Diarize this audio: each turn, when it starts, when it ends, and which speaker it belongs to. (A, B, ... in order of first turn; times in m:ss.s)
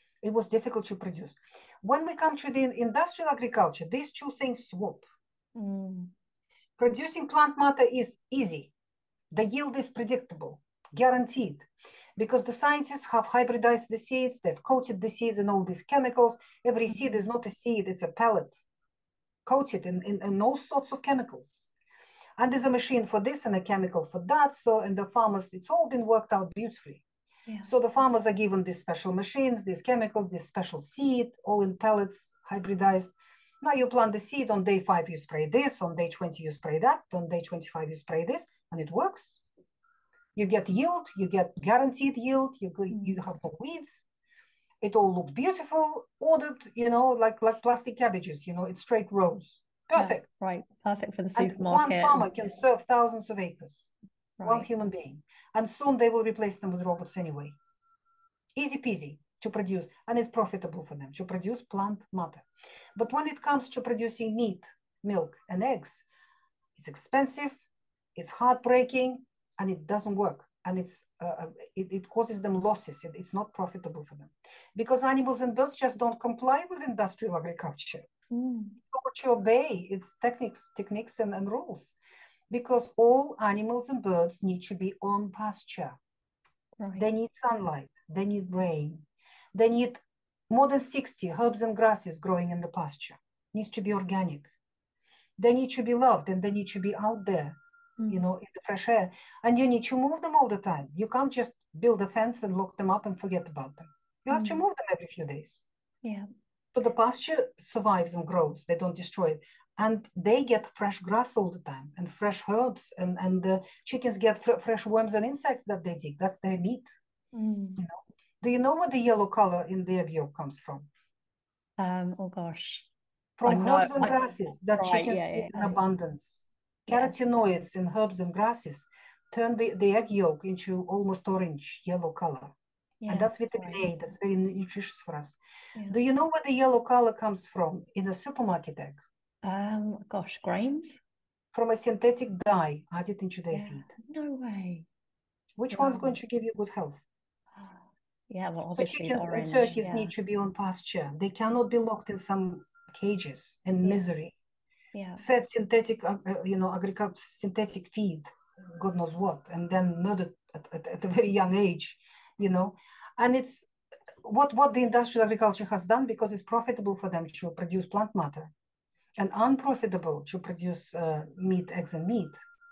0:00.2-0:05.0 A
0:05.5-0:06.1 B
0:06.8-0:08.7 A
0:09.3-0:18.6 A
0:19.4-0:21.7 A
0:22.4-0:27.0 A
0:27.6-0:39.4 A
0:40.4-0:44.0 A
0:42.9-0:43.2 B
0:44.8-0:50.3 A
0:49.9-0:52.2 B
0:51.3-0:53.9 A
0:54.4-0:54.7 B
0:54.4-0:57.6 A
0:58.6-1:02.4 A
1:03.0-1:06.0 A
1:06.8-1:07.6 A
1:08.2-1:18.1 A
1:18.3-1:18.8 B
1:18.9-1:22.0 A
1:22.5-1:26.0 A
1:26.8-1:27.0 B
1:27.0-1:34.5 A
1:35.4-1:37.6 A
1:38.1-1:45.6 A
1:44.3-1:44.6 B
1:46.0-1:46.3 B
1:46.7-1:56.9 A
1:57.3-1:57.8 B
1:57.8-2:00.9 A
2:01.8-2:02.9 B
2:03.4-2:12.5 A
2:03.4-2:04.1 B
2:04.7-2:05.8 B
2:06.9-2:07.1 B
2:13.0-2:13.8 B
2:13.1-2:15.4 A
2:15.9-2:19.0 A
2:19.4-2:21.0 B
2:21.5-2:23.9 A
2:23.5-2:24.8 B
2:25.6-2:27.0 A
2:25.7-2:26.2 B
2:27.5-2:30.1 B
2:28.7-2:34.3 A
2:34.9-2:35.2 B
2:35.2-2:43.7 A
2:44.2-2:48.5 A
2:49.2-2:52.4 A